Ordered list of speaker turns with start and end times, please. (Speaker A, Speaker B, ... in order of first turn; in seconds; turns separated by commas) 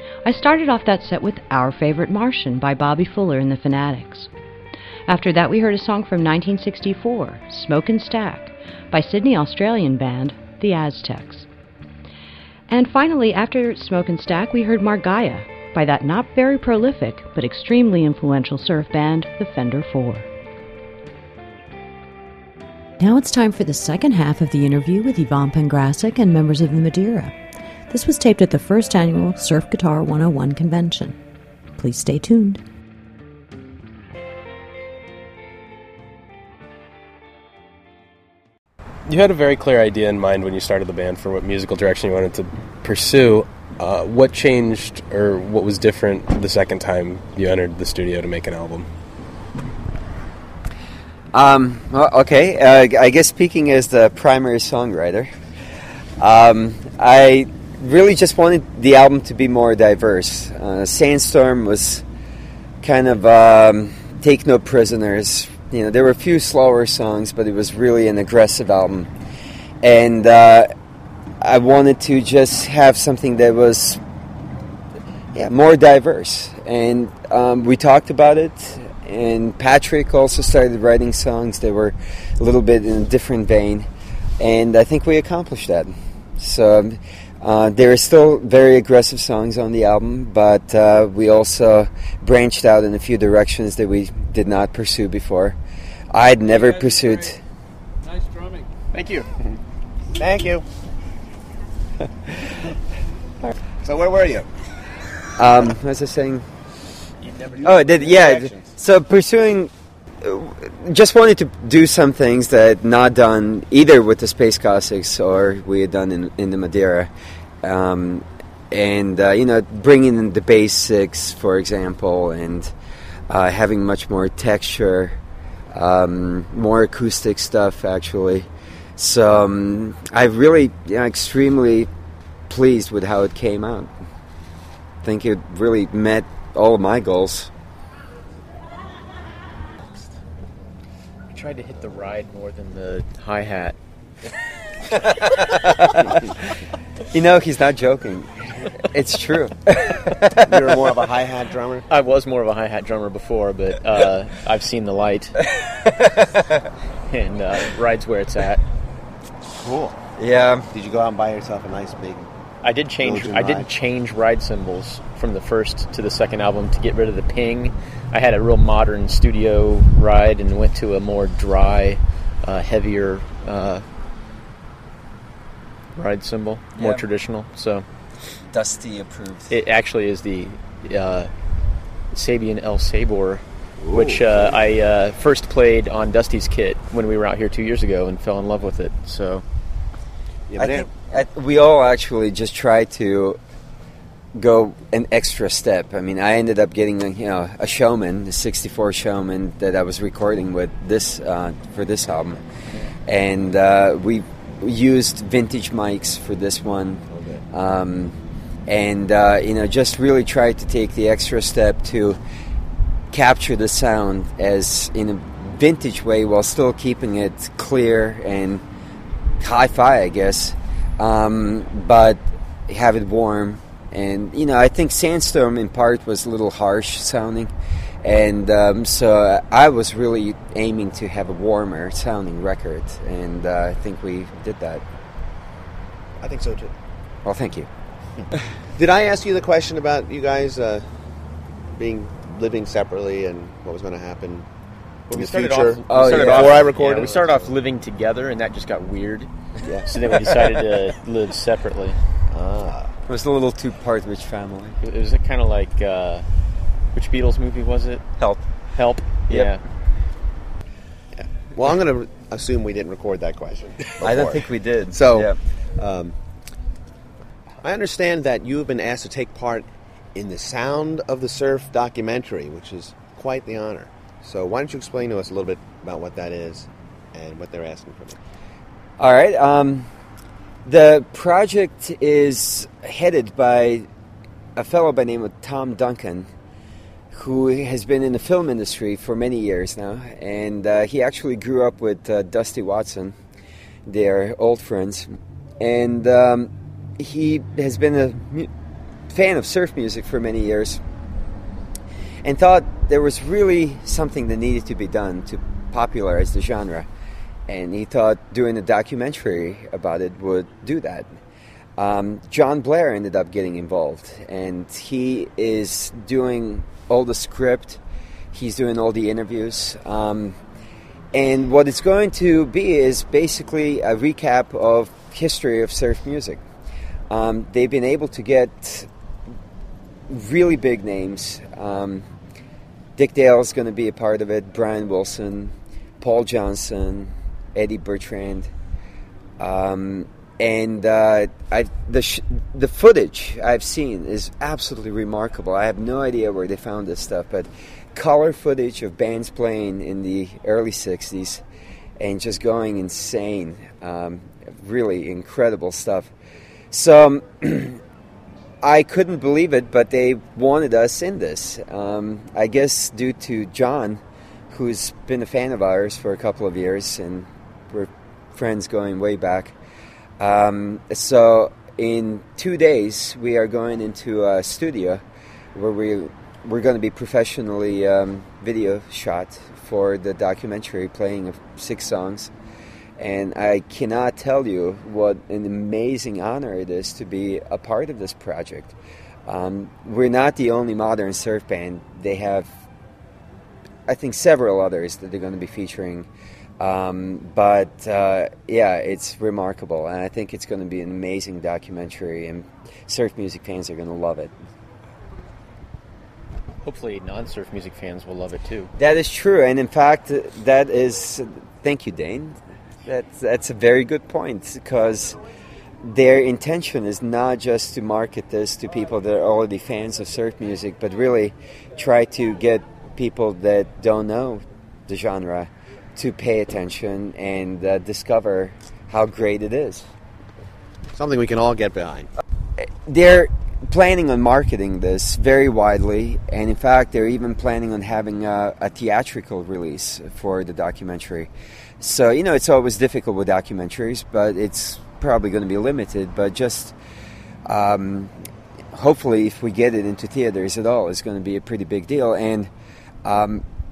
Speaker A: 0.2-4.3, Speaker A: 5.1-11.5, Speaker A: 12.7-20.3, Speaker A: 23.0-27.4, Speaker A: 27.9-31.2, Speaker A: 31.8-32.6, Speaker B: 39.1-48.9, Speaker C: 51.3-55.3, Speaker C: 56.2-62.0, Speaker C: 62.8-69.1, Speaker C: 69.8-70.7, Speaker C: 71.4-74.0, Speaker C: 75.3-83.9, Speaker C: 84.4-95.6, Speaker C: 96.1-97.4, Speaker D: 98.9-99.3, Speaker E: 100.2-100.7, Speaker E: 103.8-104.5, Speaker C: 105.4-106.5, Speaker D: 107.3-107.7, Speaker C: 107.6-117.1, Speaker E: 107.7-108.6, Speaker C: 117.6-122.7, Speaker C: 123.3-125.2, Speaker C: 125.7-131.9, Speaker C: 132.5-133.9, Speaker C: 135.0-137.5, Speaker D: 141.3-143.8, Speaker C: 145.1-146.6, Speaker C: 147.1-150.6, Speaker E: 150.4-151.9, Speaker D: 151.9-155.4, Speaker C: 155.5-156.7, Speaker D: 157.1-158.6, Speaker E: 159.6-160.1, Speaker C: 160.2-160.7, Speaker E: 160.7-162.3, Speaker D: 162.6-173.8, Speaker E: 163.0-163.7, Speaker D: 175.9-177.8, Speaker C: 176.8-177.0, Speaker C: 178.5-179.5, Speaker D: 179.5-181.3, Speaker D: 182.1-189.4, Speaker E: 183.8-184.6, Speaker E: 190.5-190.9, Speaker C: 190.6-193.4, Speaker C: 194.3-202.4, Speaker C: 203.1-212.2, Speaker E: 207.1-207.4, Speaker C: 213.1-218.6, Speaker C: 219.4-227.5, Speaker C: 228.0-234.8, Speaker E: 236.2-236.7, Speaker C: 237.2-237.7, Speaker E: 238.2-240.9, Speaker E: 241.7-244.5, Speaker D: 245.1-249.3, Speaker E: 245.1-247.5, Speaker C: 245.9-246.7, Speaker E: 249.6-249.9, Speaker D: 249.9-252.0, Speaker E: 252.3-252.9, Speaker C: 253.1-254.8, Speaker D: 254.8-256.2, Speaker D: 256.9-258.1, Speaker D: 258.7-259.6, Speaker E: 261.1-266.2, Speaker C: 264.0-265.4, Speaker E: 267.6-278.2, Speaker C: 279.0-279.9, Speaker C: 280.6-283.9, Speaker C: 284.6-286.3, Speaker C: 287.1-293.1, Speaker C: 293.9-298.5, Speaker C: 299.1-300.8, Speaker C: 302.2-306.9, Speaker C: 307.5-311.1, Speaker C: 311.8-317.8, Speaker C: 318.3-320.4, Speaker C: 321.1-326.4, Speaker C: 327.1-328.9, Speaker C: 330.1-332.1, Speaker C: 333.0-338.5, Speaker C: 339.4-351.4, Speaker C: 352.0-356.1, Speaker C: 356.7-357.8, Speaker C: 358.6-369.6, Speaker C: 370.2-375.0, Speaker C: 375.5-382.3, Speaker C: 383.0-392.5, Speaker C: 393.9-396.1, Speaker C: 396.6-404.3, Speaker D: 406.6-408.7, Speaker C: 408.8-415.2, Speaker C: 415.8-429.9, Speaker E: 430.9-432.1, Speaker C: 432.6-446.8, Speaker C: 447.5-448.1, Speaker C: 448.7-452.5, Speaker C: 453.0-453.4